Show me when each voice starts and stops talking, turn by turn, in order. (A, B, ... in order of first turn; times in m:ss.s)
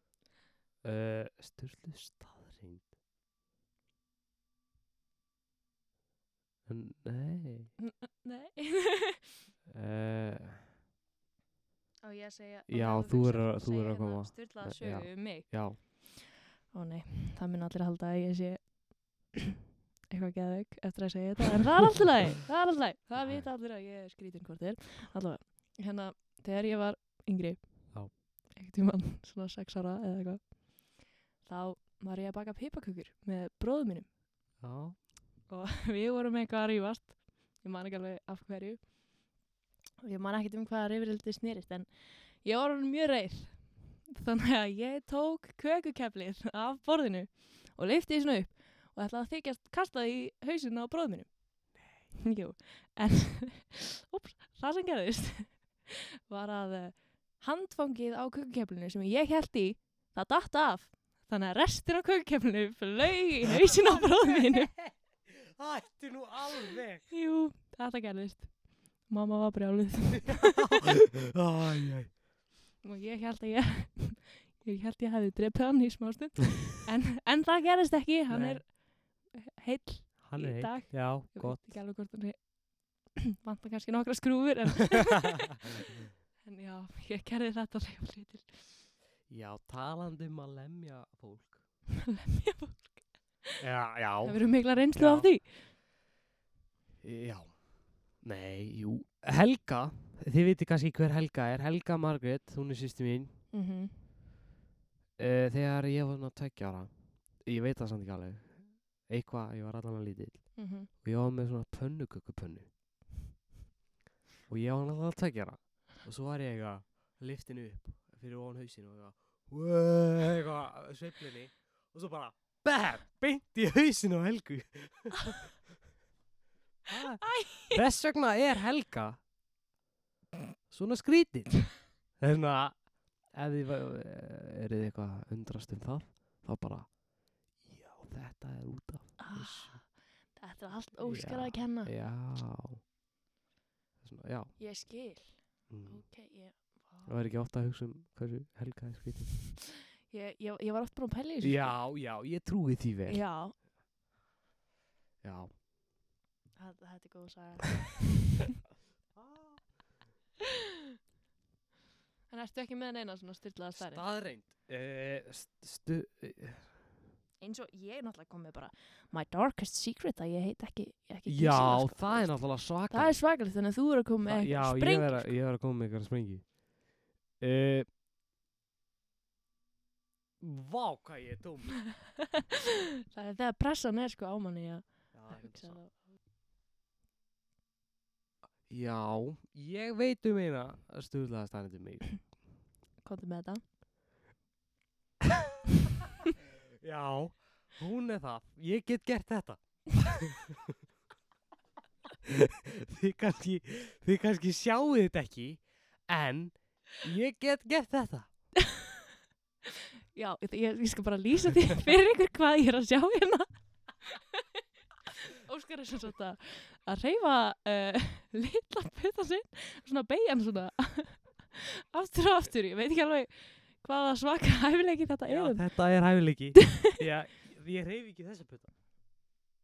0:00.8-0:02.9 A
0:06.7-0:07.7 A
0:07.8-0:09.4 B
0:09.7-0:10.6 A
0:12.0-0:19.6 B
0:12.7-0:15.8 A
0:20.1-0:34.1 B
0:23.2-0:23.5 A
0:34.6-0:35.1 A
0:35.5-0:38.9 B
0:40.0-0:41.9 B
0:42.4-1:04.7 B
1:03.7-1:07.0 A
1:07.1-1:08.5 B
1:09.0-1:10.8 B
1:10.3-1:12.2 A
1:12.8-1:22.5 B
1:18.3-1:18.6 A
1:20.2-1:21.8 A
1:23.0-1:25.7 B
1:26.4-1:28.7 B
1:29.3-1:31.6 A
1:32.0-1:33.6 B
1:33.6-1:35.3 A
1:34.2-1:35.5 B
1:37.0-1:37.7 A
1:38.2-1:43.4 A
1:43.5-1:43.9 B
1:45.2-1:52.7 A
1:50.6-1:50.9 B
1:54.5-2:05.5 A
2:06.9-2:09.2 A
2:07.2-2:07.8 B
2:10.7-2:16.9 A
2:17.6-2:19.8 A
2:19.2-2:21.9 B
2:21.0-2:22.8 A
2:24.0-2:24.5 A
2:24.6-2:27.1 B
2:25.7-2:26.0 A
2:27.0-2:29.4 A
2:30.1-2:31.8 B
2:31.4-2:33.2 A
2:33.1-2:33.5 B
2:35.2-2:35.5 A
2:36.6-2:38.1 B
2:39.2-2:39.6 A
2:42.3-2:44.0 B
2:43.7-2:46.8 A
2:47.4-2:55.4 B
2:51.3-2:53.2 A
2:54.2-2:56.6 A
2:57.4-2:57.9 A
3:00.4-3:01.8 A
3:03.0-3:05.9 B
3:05.1-3:05.8 A
3:08.7-3:12.2 A
3:13.0-3:13.6 B
3:16.8-3:20.5 A
3:22.3-3:28.3 A
3:28.6-3:29.0 B
3:29.7-3:33.5 B
3:34.0-3:34.6 B
3:35.2-3:45.6 B
3:45.3-3:48.7 A